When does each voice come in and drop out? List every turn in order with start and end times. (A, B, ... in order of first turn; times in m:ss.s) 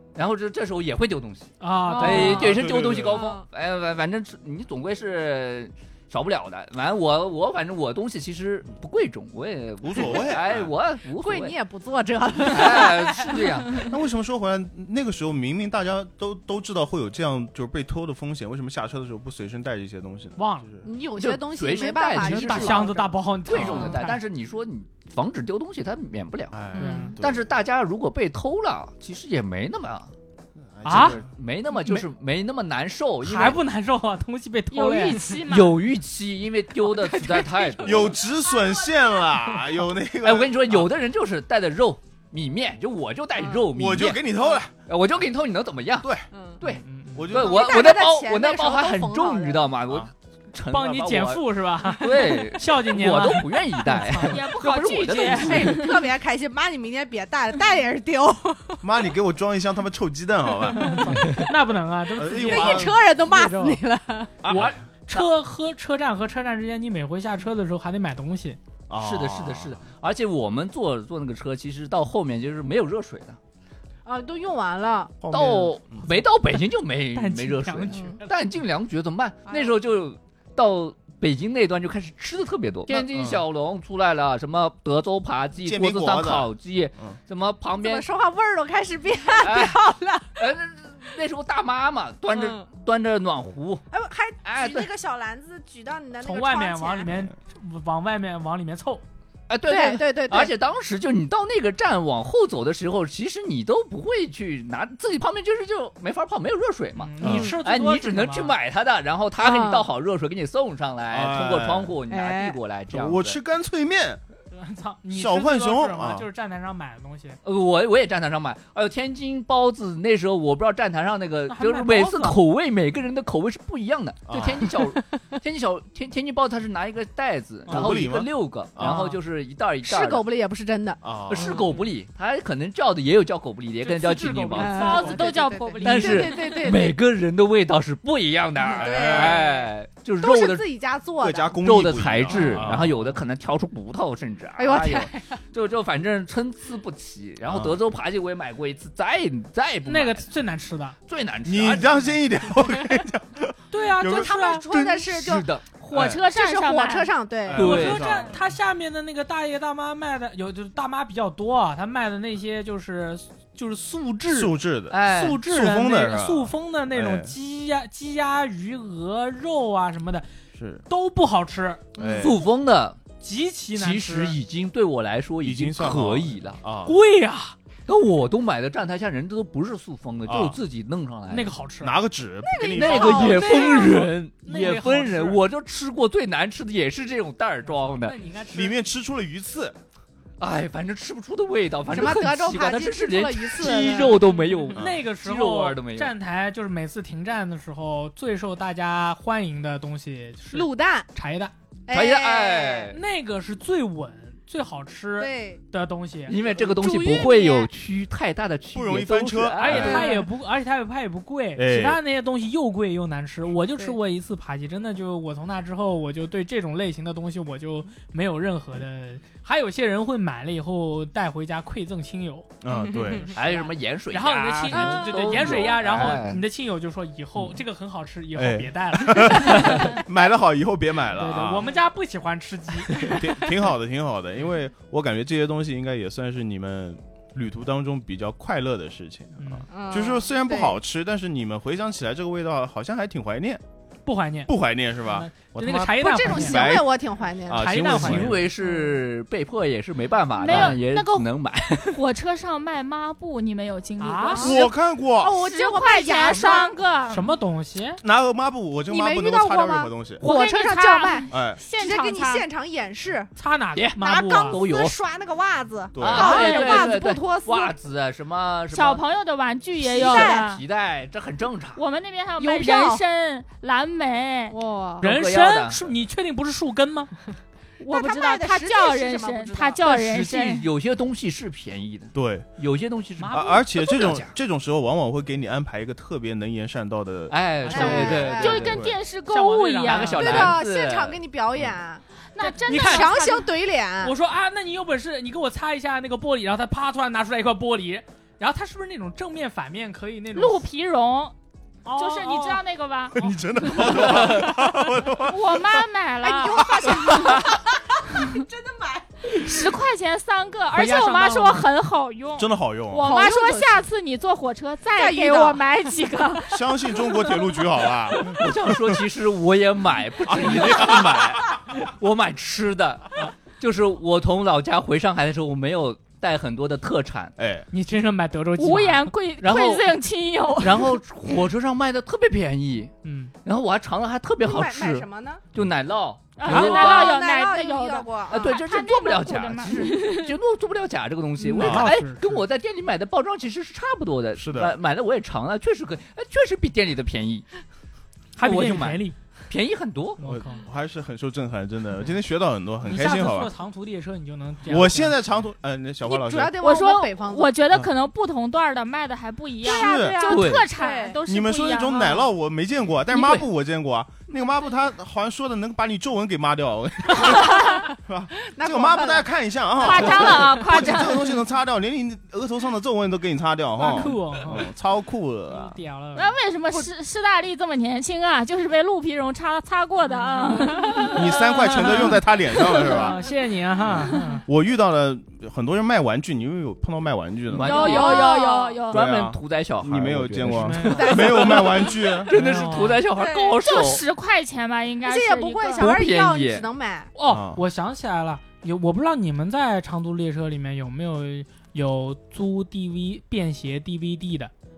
0:00.2-0:11.6 A
0:01.6-0:02.5 B
0:01.9-0:03.4 C
0:02.2-0:03.2 D
0:09.8-0:10.7 D
0:11.2-0:13.9 C
0:12.4-0:13.8 A
0:13.9-0:20.9 D
0:20.4-0:20.7 B
0:20.8-0:24.0 C
0:21.2-0:22.9 A
0:22.2-0:24.2 B
0:23.5-0:26.6 A
0:26.5-0:27.5 D
0:26.8-0:27.2 C
0:26.8-0:27.1 B
0:27.2-0:30.1 A
0:30.7-0:31.3 D
0:30.8-0:31.2 B
0:30.9-0:33.6 A
0:33.2-0:35.4 B
0:34.7-0:35.8 E
0:35.5-0:38.2 A
0:36.8-0:39.1 C
0:37.8-0:40.9 D
0:40.2-0:44.3 A
0:43.3-0:43.7 C
0:43.7-0:44.7 D
0:44.9-0:55.8 A
0:46.0-0:46.3 D
0:46.3-0:46.6 C
0:46.7-0:47.2 B
0:47.1-0:48.0 D
0:47.3-0:49.6 C
0:50.7-0:54.3 B
0:54.2-0:56.0 E
0:55.1-0:55.7 B
0:55.4-0:58.8 C
0:58.8-1:01.1 D
1:00.7-1:01.4 C
1:00.8-1:03.8 B
1:02.2-1:03.0 D
1:02.4-1:04.3 C
1:04.4-1:05.2 A
1:04.5-1:08.6 B
1:08.9-1:09.8 D
1:09.0-1:13.4 A
1:14.0-1:15.2 C
1:15.2-1:16.1 D
1:15.3-1:28.1 A
1:17.1-1:18.3 B
1:17.9-1:18.2 C
1:19.5-1:19.8 C
1:22.9-1:23.1 C
1:23.1-1:23.4 D
1:25.6-1:27.2 D
1:27.8-1:30.5 C
1:29.4-1:29.8 A
1:30.4-1:33.8 A
1:32.3-1:32.7 C
1:33.9-1:37.1 C
1:34.4-1:34.9 A
1:36.2-1:39.0 B
1:39.5-1:53.4 A
1:39.7-1:40.5 C
1:47.0-1:48.5 B
1:47.2-1:47.5 D
1:49.4-1:49.9 C
1:51.1-1:52.0 D
1:52.1-1:52.6 C
1:52.9-1:54.2 D
1:54.5-1:57.4 B
1:55.1-1:56.3 D
1:57.4-2:10.3 A
2:01.5-2:02.4 B
2:04.3-2:04.7 D
2:07.7-2:09.1 D
2:08.8-2:09.2 B
2:09.8-2:11.0 C
2:11.0-2:11.6 D
2:11.3-2:15.1 A
2:13.8-2:15.4 B
2:14.6-2:17.0 C
2:14.6-2:16.6 E
2:15.8-2:20.7 A
2:18.6-2:21.6 C
2:18.8-2:19.4 D
2:21.2-2:23.2 D
2:21.6-2:30.2 A
2:22.3-2:22.7 C
2:24.6-2:25.4 C
2:27.5-2:27.8 D
2:29.9-2:31.0 B
2:31.1-2:32.1 A
2:31.4-2:35.1 D
2:33.7-2:34.7 B
2:34.0-2:35.5 C
2:35.0-2:35.8 A
2:35.9-2:37.1 E
2:35.9-2:36.2 D
2:36.1-2:37.7 C
2:37.4-2:38.4 D
2:37.5-2:38.0 A
2:37.6-2:50.3 B
2:44.3-2:47.3 D
2:44.9-2:45.4 A
2:50.6-2:50.8 D
2:50.9-2:51.8 B
2:52.0-2:52.4 C
2:52.0-2:52.4 D
2:52.2-2:53.0 A
2:53.2-2:54.4 B
2:53.7-2:56.6 A
2:55.4-2:57.0 D
2:56.8-2:57.6 B
2:57.9-3:01.5 A
3:00.3-3:00.6 D
3:01.3-3:02.0 B
3:01.8-3:03.7 D
3:02.4-3:04.1 C
3:02.8-3:08.2 A
3:03.2-3:05.4 B
3:07.7-3:08.8 B
3:08.5-3:09.8 D
3:10.4-3:16.1 A
3:11.9-3:14.6 C
3:14.7-3:21.5 B
3:14.8-3:15.0 D
3:20.5-3:21.1 C
3:21.9-3:23.0 C
3:21.9-3:23.0 A
3:22.9-3:26.4 B
3:25.2-3:25.6 C
3:26.3-3:30.1 A
3:26.5-3:27.7 C
3:28.7-3:30.1 D
3:29.6-3:49.9 B
3:29.8-3:30.2 C
3:31.6-3:32.0 D
3:42.6-3:43.3 D
3:42.8-3:43.3 C
3:43.4-3:46.4 A
3:44.8-3:45.6 C
3:48.4-3:51.7 D
3:51.2-3:53.1 B
3:53.0-4:03.6 D
3:59.4-3:59.7 B
3:59.7-4:00.8 C
4:04.1-4:06.8 B
4:04.5-4:08.5 D
4:06.0-4:07.8 C
4:07.5-4:08.3 B
4:08.0-4:12.0 A
4:08.6-4:09.0 C
4:10.4-4:11.3 E
4:11.9-4:14.6 E
4:14.0-4:14.5 B
4:14.3-4:16.8 C
4:14.4-4:15.3 D
4:15.4-4:17.3 E
4:17.1-4:18.0 B
4:18.0-4:20.2 D
4:18.9-4:23.3 C
4:20.2-4:22.5 E
4:21.3-4:21.6 D
4:23.4-4:24.6 B
4:23.8-4:25.0 A
4:24.0-4:27.7 C
4:25.9-4:26.4 D
4:26.0-4:29.0 A
4:26.1-4:27.0 E
4:28.7-4:30.6 E
4:29.8-4:30.5 C
4:30.0-4:31.8 A
4:31.8-4:34.6 E
4:32.4-4:33.0 C
4:34.5-4:35.1 C
4:35.0-4:35.8 A
4:35.0-4:37.1 B
4:37.8-4:40.7 E
4:37.8-4:40.2 C
4:39.9-4:44.3 A
4:42.2-4:42.5 D
4:43.2-4:43.6 B
4:43.3-4:49.0 D
4:47.3-4:48.8 A
4:47.6-4:48.8 C
4:47.8-4:50.6 E
4:49.3-4:50.6 B
4:49.8-4:51.2 A
4:50.2-4:52.0 C
4:52.4-4:53.5 E
4:52.4-4:53.3 B
4:52.7-4:54.2 C
4:54.0-5:00.6 B
5:00.3-5:01.4 E
5:01.8-5:02.6 B
5:02.0-5:03.9 E
5:03.2-5:05.8 D
5:05.3-5:07.4 E
5:06.2-5:09.4 C
5:06.8-5:07.4 D
5:09.3-5:16.6 E
5:10.7-5:11.7 B
5:12.4-5:13.1 D
5:13.0-5:13.8 C
5:14.9-5:15.6 C
5:16.5-5:19.0 D
5:18.4-5:27.4 A
5:20.3-5:21.4 D
5:27.4-5:27.7 D
5:27.7-5:29.1 B
5:28.6-5:31.0 E
5:29.4-5:29.9 A
5:30.6-5:32.9 A
5:33.0-5:33.3 B
5:33.4-5:37.2 A
5:34.4-5:35.4 C
5:36.4-5:40.4 E
5:36.5-5:36.8 B
5:36.5-5:38.6 C
5:38.3-5:47.5 A
5:41.6-5:42.4 B
5:41.6-5:41.9 D
5:44.4-5:44.8 D
5:48.4-5:49.2 B
5:48.4-5:50.2 A
5:50.2-5:50.6 B
5:50.2-5:53.5 D
5:52.8-5:55.2 B
5:54.6-5:56.6 D
5:56.0-5:57.6 C
5:56.6-6:02.3 E
5:59.6-6:01.2 C
5:59.6-6:00.2 D
6:00.3-6:00.7 A
6:01.3-6:15.8 D
6:07.1-6:07.9 C
6:07.3-6:07.8 E
6:08.4-6:09.3 C
6:09.8-6:11.1 C
6:09.8-6:11.3 E
6:13.8-6:14.6 B
6:15.5-6:16.4 B
6:16.2-6:22.0 E
6:20.2-6:21.0 B
6:20.6-6:21.1 C
6:21.1-6:23.2 D
6:21.6-6:22.2 B
6:22.8-6:24.4 B
6:23.9-6:27.9 D
6:27.5-6:34.0 A
6:27.6-6:28.8 C
6:27.6-6:29.0 E
6:28.9-6:32.3 D
6:30.5-6:31.4 B
6:30.9-6:32.3 C
6:32.3-6:33.0 B
6:33.1-6:33.6 C
6:33.6-6:36.0 E
6:35.0-6:37.1 C
6:35.8-6:36.7 A
6:37.2-6:44.5 B
6:37.2-6:37.6 D